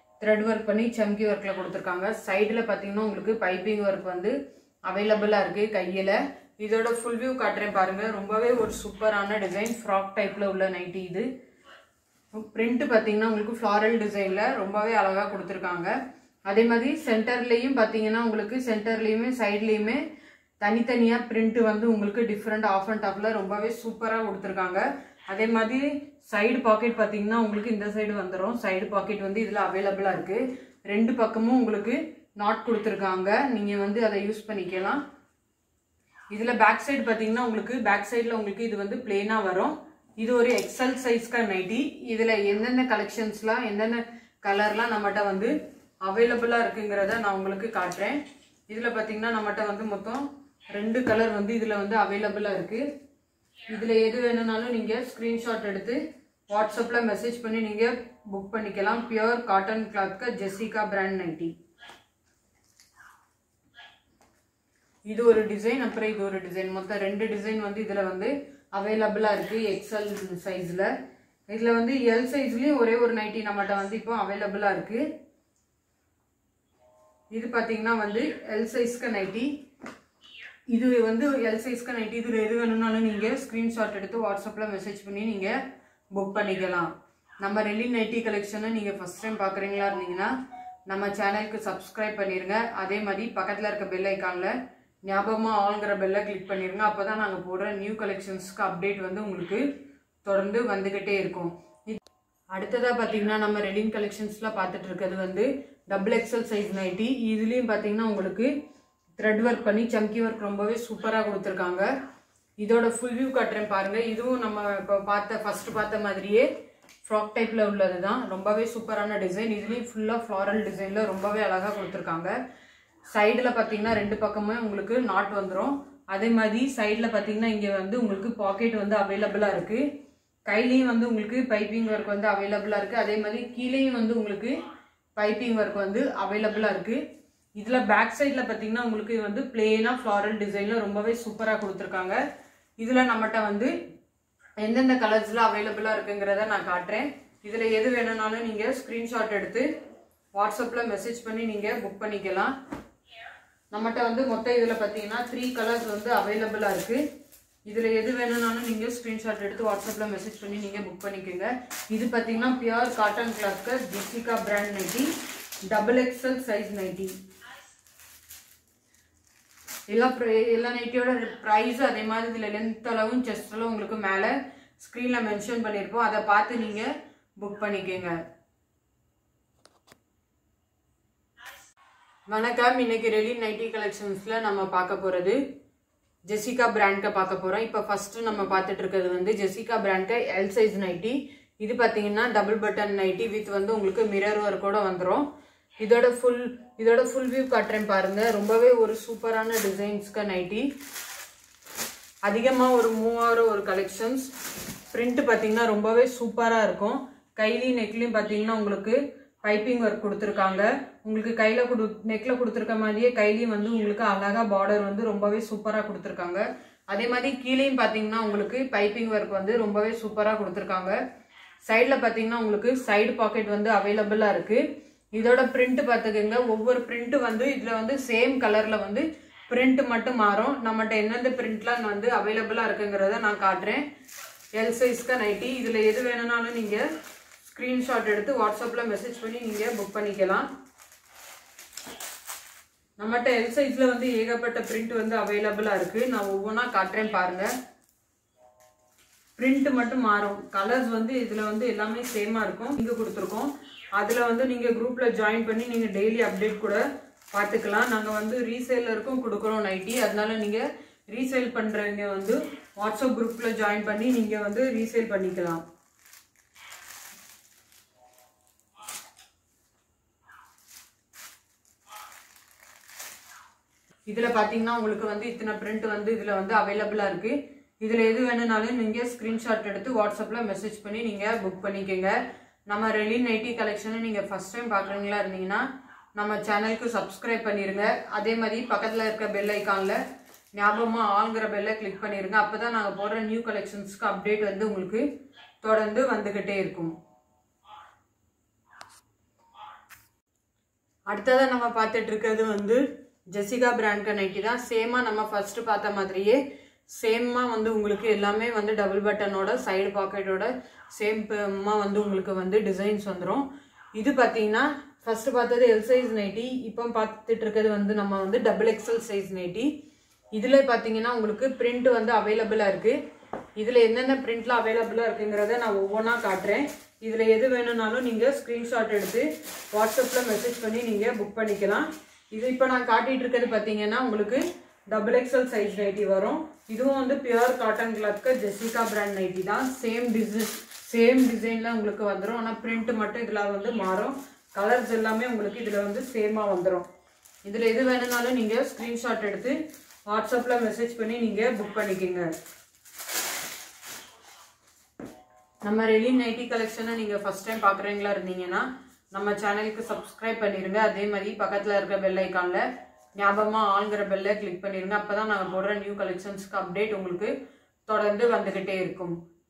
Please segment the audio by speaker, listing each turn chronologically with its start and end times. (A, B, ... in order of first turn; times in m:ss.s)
0:00.2-0:04.3 A
0:04.9-0:11.3 A
0:12.4-0:15.9 A
0:16.5-0:20.0 A
0:20.6-0:35.0 A
0:36.3-0:45.5 A
0:46.0-0:52.9 A
0:53.7-1:01.5 A
1:05.1-1:10.9 A
1:11.5-1:15.0 A
1:17.3-1:19.5 A
1:20.7-1:25.6 A
1:26.1-1:30.3 A
1:30.9-1:34.5 A
1:35.1-1:42.0 A
1:42.5-1:48.5 A
1:49.2-1:51.9 A
1:52.6-1:56.5 A
1:57.0-2:02.3 A
2:03.1-2:09.8 A
2:10.5-2:14.6 A
2:15.2-2:17.0 A
2:17.6-2:22.2 A
2:22.8-2:23.7 A
2:24.6-2:29.7 A
2:30.4-2:32.5 A
2:33.7-2:37.0 A
2:37.7-2:45.1 A
2:45.7-2:47.1 A
2:49.9-2:58.1 A
3:02.3-3:05.4 A
3:06.3-3:15.3 A
3:15.8-3:20.7 A
3:22.3-3:24.3 A
3:24.9-3:41.0 A
3:41.7-3:44.6 A
3:45.2-3:53.8 A
3:54.6-3:56.8 A
3:57.4-4:00.5 A
4:03.0-4:07.5 A
4:09.4-4:16.8 A
4:17.3-4:25.6 A
4:34.1-4:45.6 A
4:46.2-4:50.0 A
4:50.5-4:55.0 A
4:55.6-4:56.9 A
5:01.1-5:19.7 A
5:20.3-5:23.0 A
5:23.6-5:46.9 A
5:47.4-5:52.3 A
5:55.6-6:02.6 A
6:03.2-6:07.3 A
6:07.9-6:09.2 A